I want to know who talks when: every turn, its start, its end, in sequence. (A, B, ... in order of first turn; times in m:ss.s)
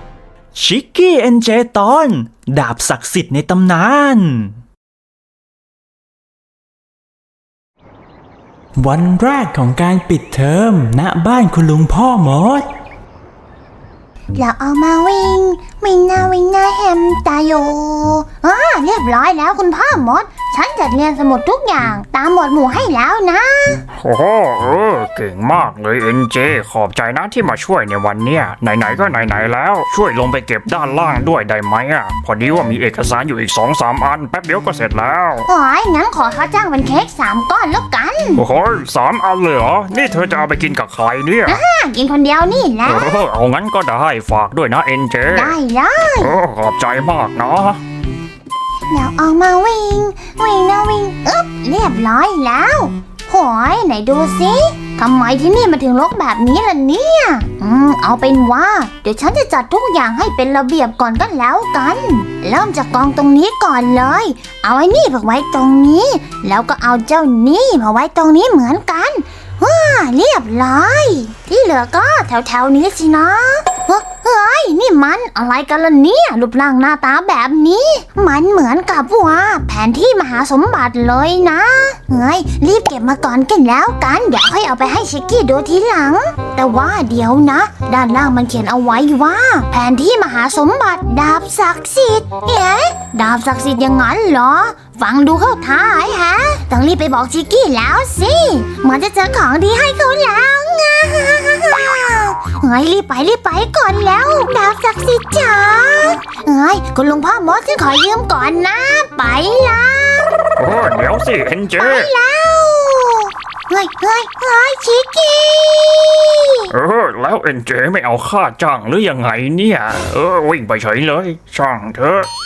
0:00.6-0:04.5 A
0:08.8-0:12.7 A
0:14.4-0:23.9 B
0:24.0-0:35.5 C
0:35.5-0:38.4 B
0:38.4-0:41.6 C
0:41.4-0:43.2 B
0:42.8-0:45.6 C
0:45.3-0:46.4 B
0:46.2-0:47.8 C
0:48.9-1:50.4 B
1:50.6-1:52.1 C
1:51.8-1:56.7 B
1:56.7-2:02.3 C